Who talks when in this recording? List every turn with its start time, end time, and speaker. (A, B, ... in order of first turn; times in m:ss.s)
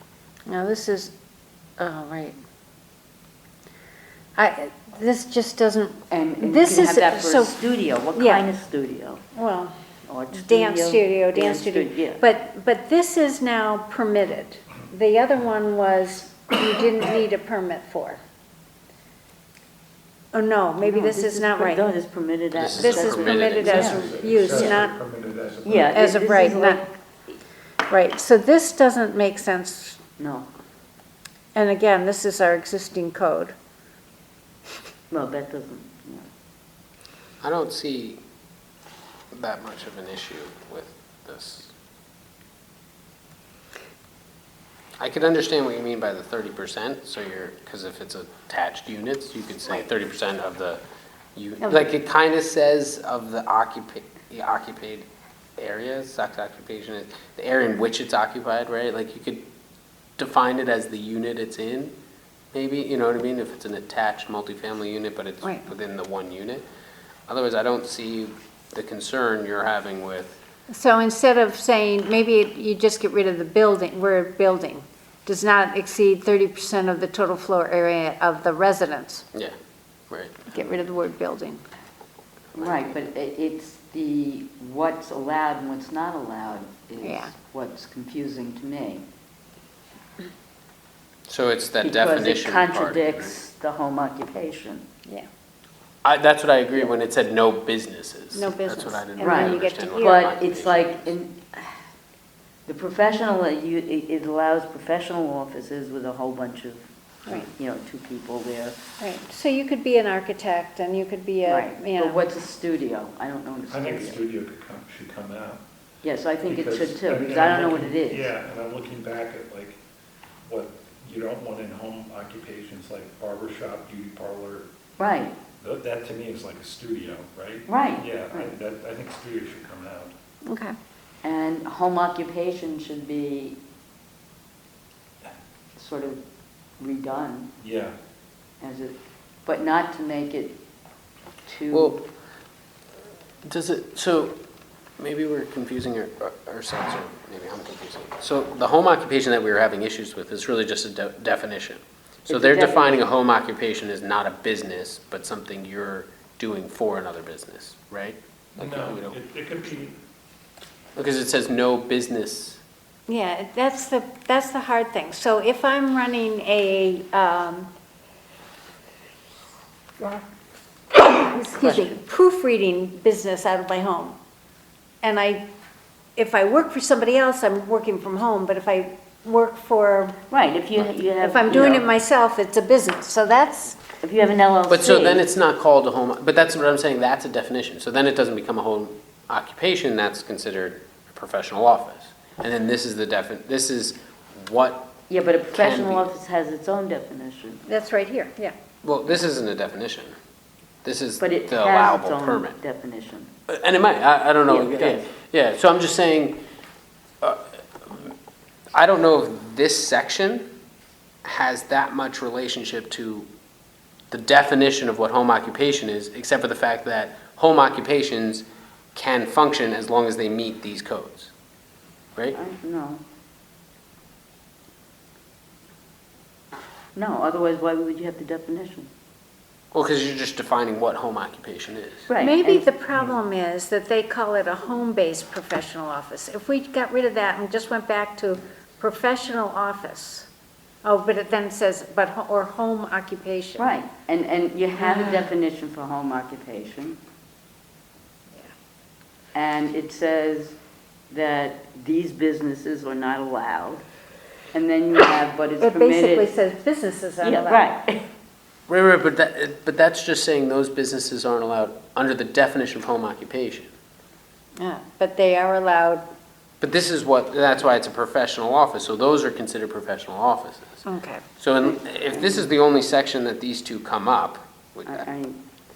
0:00.5-0:01.1 A
0:01.8-0:02.4 A
0:04.4-0:08.4 A
0:06.1-0:09.2 B
0:09.3-0:09.7 A
0:10.1-0:12.2 B
0:10.3-0:18.2 A
0:20.3-0:21.8 A
0:20.8-0:24.9 B
0:22.5-0:24.0 C
0:22.8-0:25.0 A
0:23.6-0:26.1 D
0:25.6-0:26.9 B
0:25.9-0:26.8 A
0:27.9-0:30.0 A
0:30.2-0:30.5 B
0:31.5-0:33.5 A
0:35.1-0:36.3 B
0:37.4-0:38.2 C
0:39.3-0:41.7 C
0:45.0-0:50.8 C
0:51.3-0:59.5 C
1:00.2-1:01.9 C
1:02.5-1:06.6 C
1:05.4-1:05.7 A
1:07.3-1:10.4 C
1:10.7-1:19.3 A
1:20.1-1:20.5 C
1:20.5-1:21.6 A
1:22.5-1:29.0 B
1:22.6-1:22.9 C
1:27.0-1:27.3 A
1:31.3-1:33.4 C
1:31.8-1:34.8 B
1:36.0-1:41.0 C
1:38.3-1:40.4 A
1:39.2-1:41.8 B
1:42.6-1:48.8 B
1:49.0-1:52.2 A
1:51.4-1:54.2 B
1:53.7-1:55.6 D
1:56.0-1:58.3 B
1:56.4-1:59.8 D
2:00.4-2:04.7 D
2:05.0-2:05.3 B
2:05.6-2:10.1 D
2:07.7-2:08.5 B
2:10.4-2:10.8 A
2:11.2-2:13.6 B
2:15.8-2:16.2 B
2:16.8-2:17.5 B
2:17.6-2:17.9 D
2:18.6-2:20.6 B
2:21.4-2:22.0 B
2:21.7-2:22.0 C
2:23.4-2:24.4 C
2:25.0-2:39.2 C
2:32.2-2:33.1 B
2:38.6-2:40.0 D
2:41.0-2:42.6 C
2:43.1-2:47.7 A
2:50.9-2:54.2 A
2:51.3-2:52.0 B
2:55.0-2:55.4 A
2:56.2-3:00.2 A
3:00.3-3:01.8 B
3:01.2-3:03.8 A
3:04.0-3:05.2 B
3:04.7-3:14.9 C
3:15.1-3:17.6 B
3:15.5-3:16.1 C
3:17.7-3:18.5 A
3:18.8-3:20.1 C
3:20.8-3:22.6 C
3:21.2-3:23.3 B
3:23.5-3:26.4 C
3:24.5-3:25.1 B
3:27.2-3:28.1 C
3:28.7-3:30.5 C
3:31.2-3:33.3 C
3:34.1-3:41.3 C
3:42.3-3:43.0 B
3:46.9-3:48.9 B
3:49.7-3:52.1 C
3:52.1-3:52.7 B
3:52.2-4:00.3 A
4:00.8-4:03.7 A
4:03.6-4:07.0 B
4:04.9-4:05.1 A
4:09.3-4:10.6 B
4:11.1-4:13.8 B
4:14.5-4:16.3 B
4:15.6-4:17.7 A
4:17.2-4:18.0 B
4:18.7-4:23.7 C
4:24.6-4:26.0 A
4:26.6-4:30.8 C
4:30.8-4:31.2 A
4:31.4-4:35.1 C
4:31.6-4:32.5 B
4:34.9-4:35.4 B